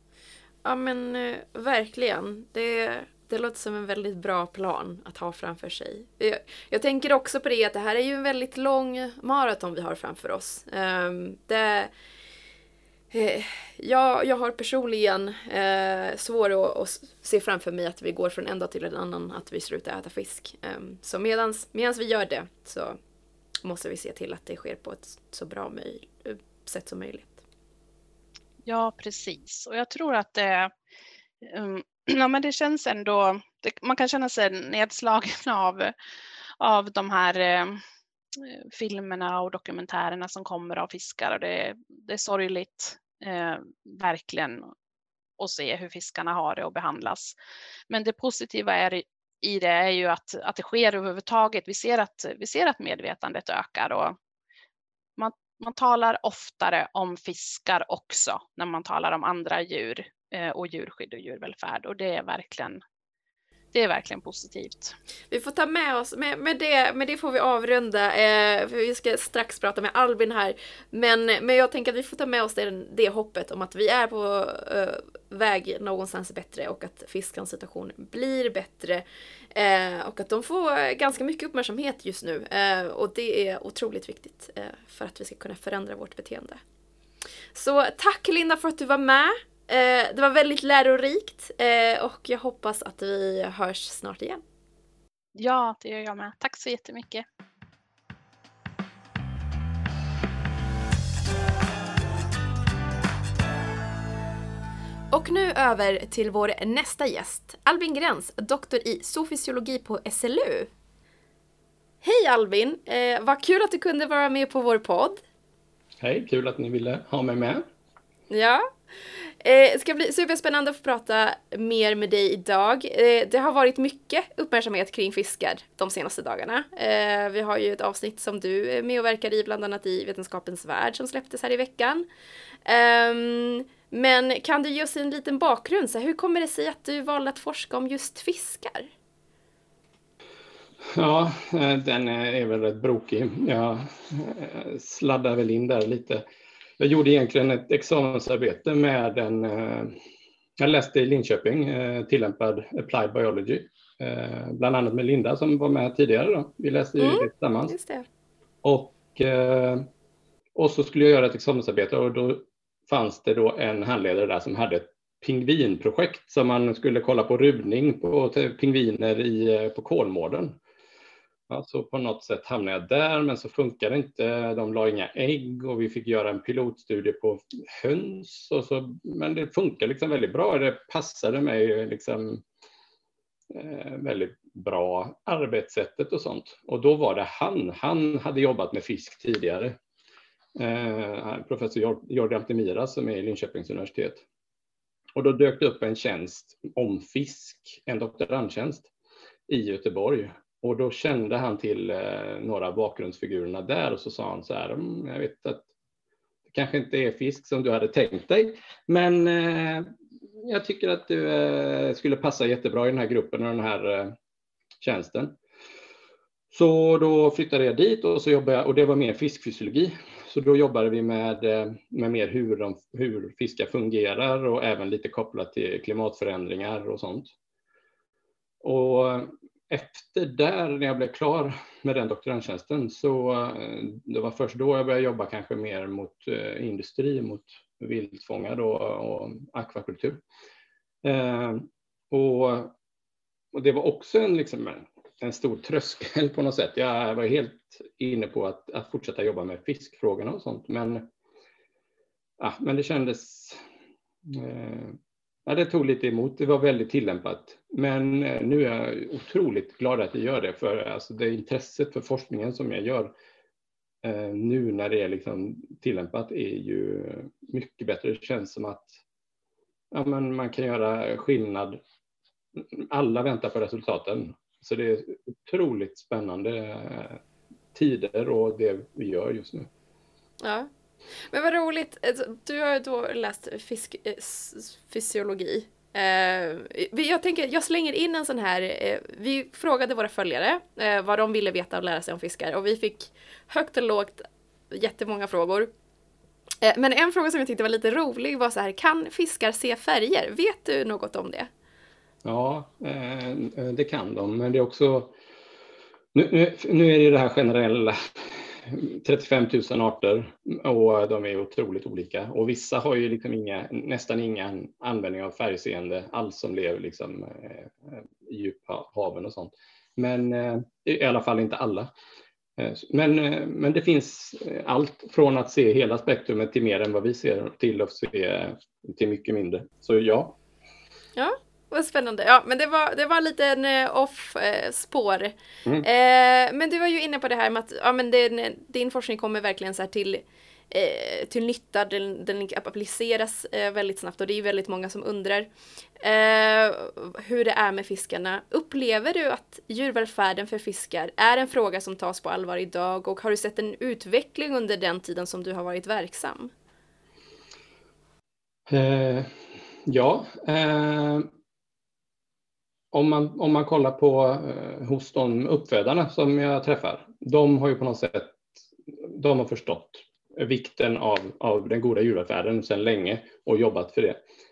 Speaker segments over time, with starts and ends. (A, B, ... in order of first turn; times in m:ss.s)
0:00.6-0:11.9 A
0:13.1-0:23.0 A
0:23.6-0:27.4 A
0:28.6-0:30.7 B
0:31.4-0:35.9 B
0:36.6-0:37.8 B
0:38.4-0:44.7 B
0:45.4-0:47.4 B
0:47.9-0:54.2 B
0:55.2-1:02.8 B
1:03.7-1:05.0 B
1:05.3-1:26.6 A
1:27.5-1:34.4 A
1:35.3-1:37.2 B
1:45.1-1:50.7 A
1:52.0-1:55.2 A
1:56.0-1:57.6 C
1:58.3-2:12.0 A
2:12.6-2:18.9 A
2:20.9-2:26.2 C
2:26.8-2:30.0 C
2:30.6-2:37.8 C
2:37.0-2:38.0 A
2:38.6-2:39.9 C
2:40.5-2:50.6 C
2:51.5-3:02.4 C
3:03.5-3:09.8 C
3:10.6-3:14.2 C
3:15.2-3:18.9 C
3:19.5-3:25.7 C
3:26.5-3:29.9 C
3:30.4-3:34.2 C
3:34.8-3:35.4 C
3:36.5-3:47.3 C
3:48.6-4:00.2 C
4:01.0-4:02.7 C
4:03.5-4:11.1 C
4:12.4-4:13.6 C
4:14.3-4:23.1 C
4:24.0-4:29.0 C
4:29.9-4:31.8 C
4:32.6-4:37.2 C
4:37.7-4:39.7 C
4:40.4-4:40.7 A
4:41.3-4:55.7 A
4:56.6-5:01.5 A
5:02.2-5:05.1 C
5:06.1-5:21.9 C
5:22.6-5:30.4 C
5:31.2-5:56.5 A
5:58.7-5:59.3 C
5:59.8-6:01.3 C
6:02.9-6:14.2 C